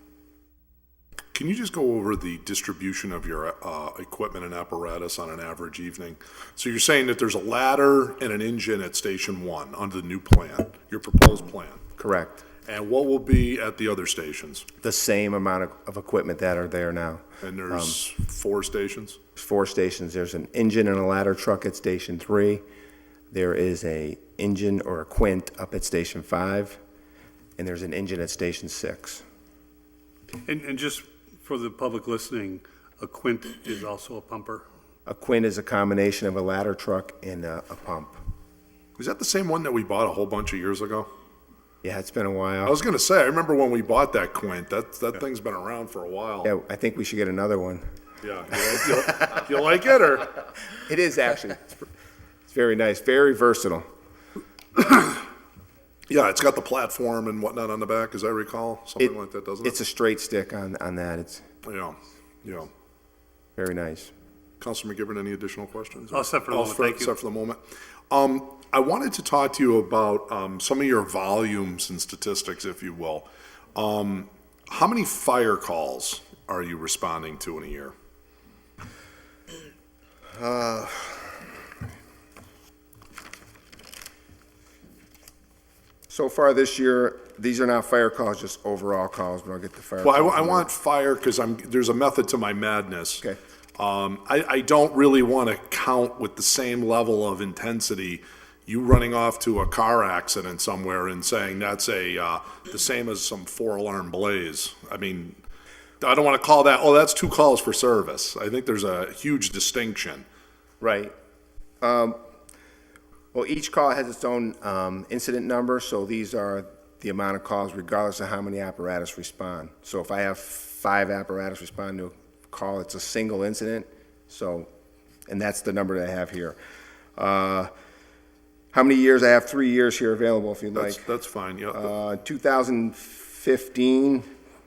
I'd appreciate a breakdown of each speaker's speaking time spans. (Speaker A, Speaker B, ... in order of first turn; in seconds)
Speaker A: 1.3-11.9, 12.7-14.7, 17.4-19.2, 39.0-41.1, 42.6-46.5, 48.2-50.3, 54.8-55.2, 56.1-59.8, 61.6-62.7, 64.6-67.6, 68.1-77.9, 90.0-93.2, 93.8-105.4, 106.0-110.2, 130.7-131.9
Speaker B: 12.0-12.4, 14.8-18.0, 19.4-22.6, 23.3-26.8, 27.6-29.2, 35.1-38.2, 41.8-42.8, 46.4-47.8, 50.9-51.8, 52.5-53.9, 59.0-61.4, 63.6-64.1, 80.3-81.3, 86.1-90.7, 110.8-111.1, 111.8-112.2, 113.3-124.7, 125.3-126.6, 127.2-127.7, 128.7-131.0, 131.7-134.3
Speaker C: 30.4-34.6, 66.1-67.1